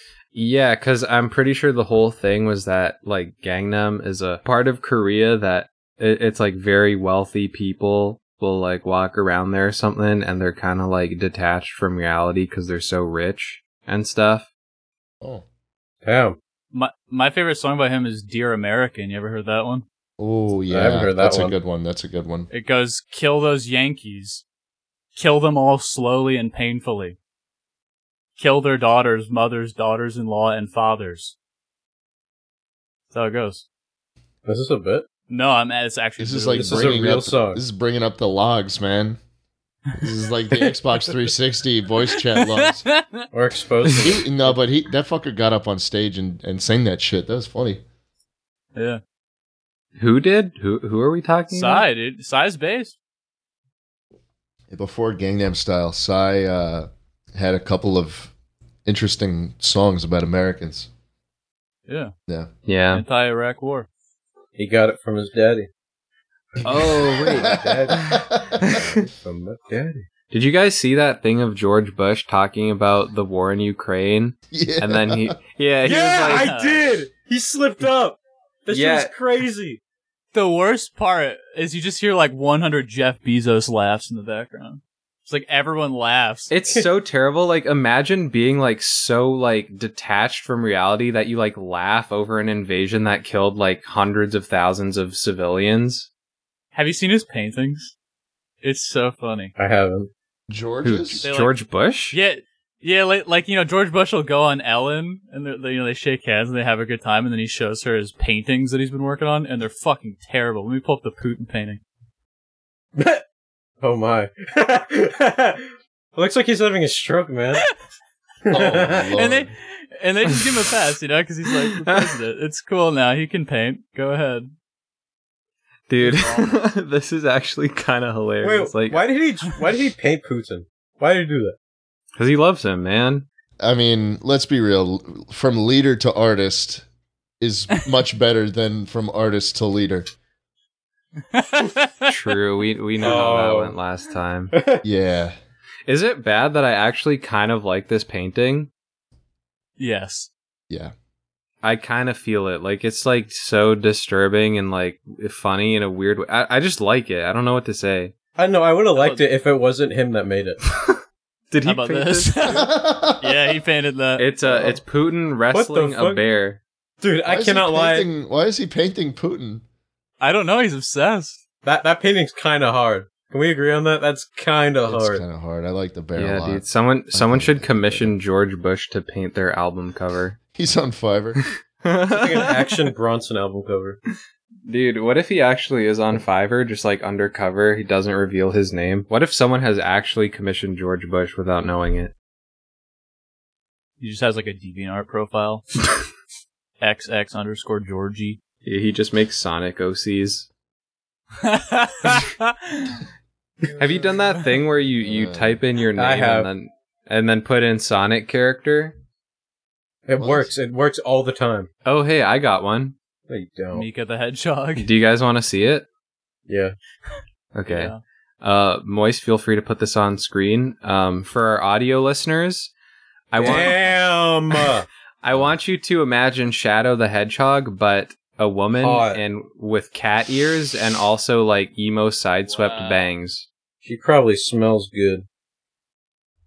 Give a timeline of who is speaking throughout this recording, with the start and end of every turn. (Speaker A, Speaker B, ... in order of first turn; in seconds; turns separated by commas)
Speaker A: 0.3-14.5, Speaker B: 16.0-16.4, Speaker C: 16.7-19.9, Speaker D: 20.2-22.5, Speaker B: 20.7-21.6, Speaker C: 22.5-24.4, Speaker C: 25.1-27.2, Speaker C: 28.4-31.4, Speaker C: 33.1-33.6, Speaker B: 34.5-35.0, Speaker C: 35.3-37.0, Speaker D: 36.2-39.2, Speaker B: 36.5-37.6, Speaker D: 40.0-42.9, Speaker C: 42.3-43.3, Speaker B: 43.3-44.6, Speaker C: 43.8-44.1, Speaker D: 44.0-47.8, Speaker C: 48.8-49.0, Speaker A: 50.0-51.9, Speaker C: 51.5-53.0, Speaker D: 54.7-58.3, Speaker D: 58.9-60.9, Speaker C: 61.9-62.1, Speaker A: 62.7-63.0, Speaker C: 62.9-63.9, Speaker B: 64.6-65.7, Speaker B: 66.5-70.1, Speaker A: 66.6-69.0, Speaker D: 67.3-68.8, Speaker A: 70.3-76.5, Speaker D: 74.5-75.4, Speaker B: 75.8-79.8, Speaker C: 75.9-76.9, Speaker A: 78.7-79.1, Speaker C: 80.3-86.5, Speaker A: 86.5-96.1, Speaker C: 96.7-97.9, Speaker C: 98.6-99.5, Speaker B: 99.6-100.1, Speaker D: 100.5-101.2, Speaker A: 100.8-102.2, Speaker C: 101.2-101.6, Speaker C: 102.1-111.8, Speaker B: 113.0-113.2, Speaker B: 113.8-117.6, Speaker B: 118.5-119.1, Speaker D: 118.5-119.5, Speaker C: 119.2-124.5, Speaker A: 121.8-122.2, Speaker A: 125.9-129.0, Speaker C: 126.0-126.5, Speaker B: 128.4-131.6, Speaker A: 132.2-133.3, Speaker D: 133.6-136.8, Speaker D: 137.4-140.1, Speaker C: 141.3-142.1, Speaker A: 142.0-144.5, Speaker B: 143.0-143.8, Speaker B: 144.5-144.8, Speaker D: 144.8-145.3, Speaker A: 145.9-148.7, Speaker C: 149.8-150.3, Speaker A: 151.6-158.1, Speaker B: 158.4-160.6, Speaker C: 159.0-159.2, Speaker A: 161.5-162.5, Speaker C: 161.6-164.3, Speaker D: 162.4-163.4, Speaker A: 164.2-166.6, Speaker B: 164.5-164.8, Speaker B: 165.5-166.2, Speaker B: 167.0-168.1, Speaker D: 167.2-169.6, Speaker C: 170.2-171.4, Speaker B: 171.6-175.2, Speaker D: 174.9-178.1, Speaker A: 176.2-180.4, Speaker D: 180.6-181.4, Speaker A: 181.4-182.5, Speaker B: 182.1-184.0, Speaker A: 184.7-192.1, Speaker C: 194.0-195.6, Speaker C: 196.8-198.4, Speaker A: 198.6-200.5, Speaker C: 201.4-203.0, Speaker B: 203.7-204.0, Speaker A: 203.8-209.0, Speaker D: 205.0-205.6, Speaker B: 205.9-206.5, Speaker B: 210.1-211.7, Speaker D: 210.2-210.5, Speaker A: 211.8-212.9, Speaker B: 213.3-213.9, Speaker C: 213.7-214.9, Speaker A: 214.8-215.8, Speaker B: 216.5-216.8, Speaker A: 217.5-222.7, Speaker C: 217.7-218.0, Speaker A: 223.3-223.9, Speaker B: 223.4-224.9, Speaker A: 225.2-233.5, Speaker B: 228.8-229.2, Speaker C: 232.5-233.1, Speaker B: 233.8-235.2